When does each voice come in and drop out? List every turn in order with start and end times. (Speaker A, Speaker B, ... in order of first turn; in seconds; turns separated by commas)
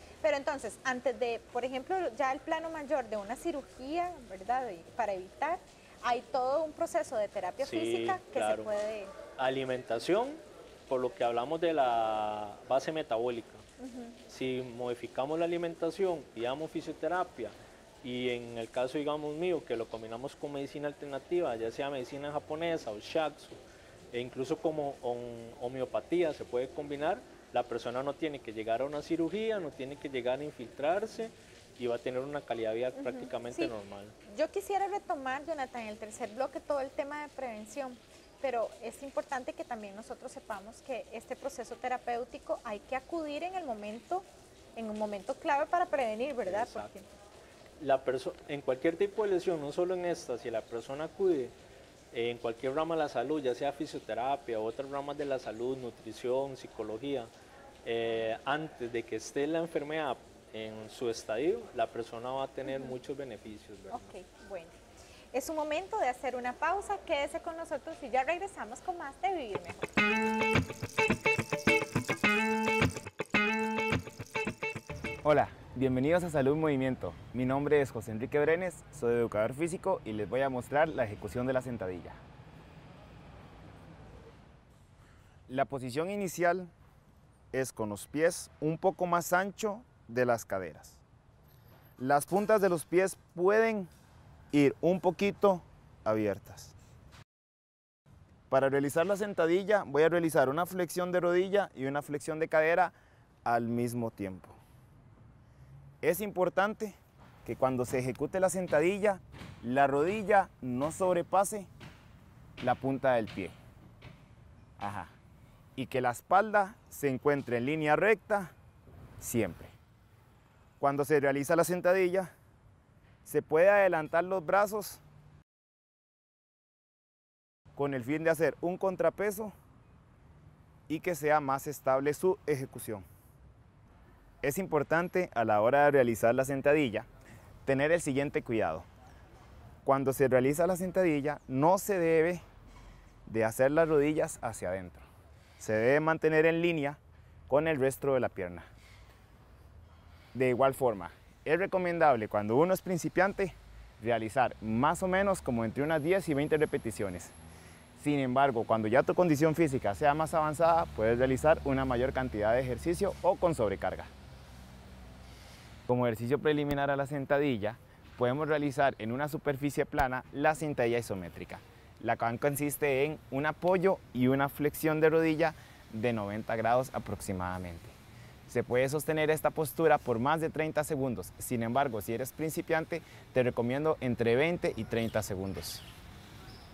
Speaker A: 0.2-9.1, Speaker B: 7.6-8.7, Speaker B: 9.4-13.6, Speaker A: 13.8-14.1, Speaker B: 14.3-23.6, Speaker B: 24.1-34.1, Speaker A: 33.0-33.7, Speaker A: 34.3-47.0, Speaker B: 46.5-46.9, Speaker B: 47.8-51.5, Speaker B: 52.1-57.3, Speaker B: 57.8-64.1, Speaker A: 62.6-62.9, Speaker A: 63.9-64.8, Speaker A: 65.3-69.9, Speaker C: 75.2-82.2, Speaker C: 85.5-86.7, Speaker C: 87.5-91.0, Speaker C: 92.0-93.9, Speaker C: 94.5-96.7, Speaker C: 98.5-102.9, Speaker C: 103.4-104.6, Speaker C: 106.0-111.7, Speaker C: 112.6-113.5, Speaker C: 114.8-115.1, Speaker C: 115.8-118.5, Speaker C: 119.2-119.7, Speaker C: 120.8-122.3, Speaker C: 123.2-125.0, Speaker C: 127.7-129.5, Speaker C: 130.9-133.0, Speaker C: 134.4-137.1, Speaker C: 137.6-138.9, Speaker C: 139.8-142.4, Speaker C: 143.2-145.0, Speaker C: 145.6-148.7, Speaker C: 150.3-157.3, Speaker C: 158.0-164.1, Speaker C: 165.9-177.9, Speaker C: 178.5-185.8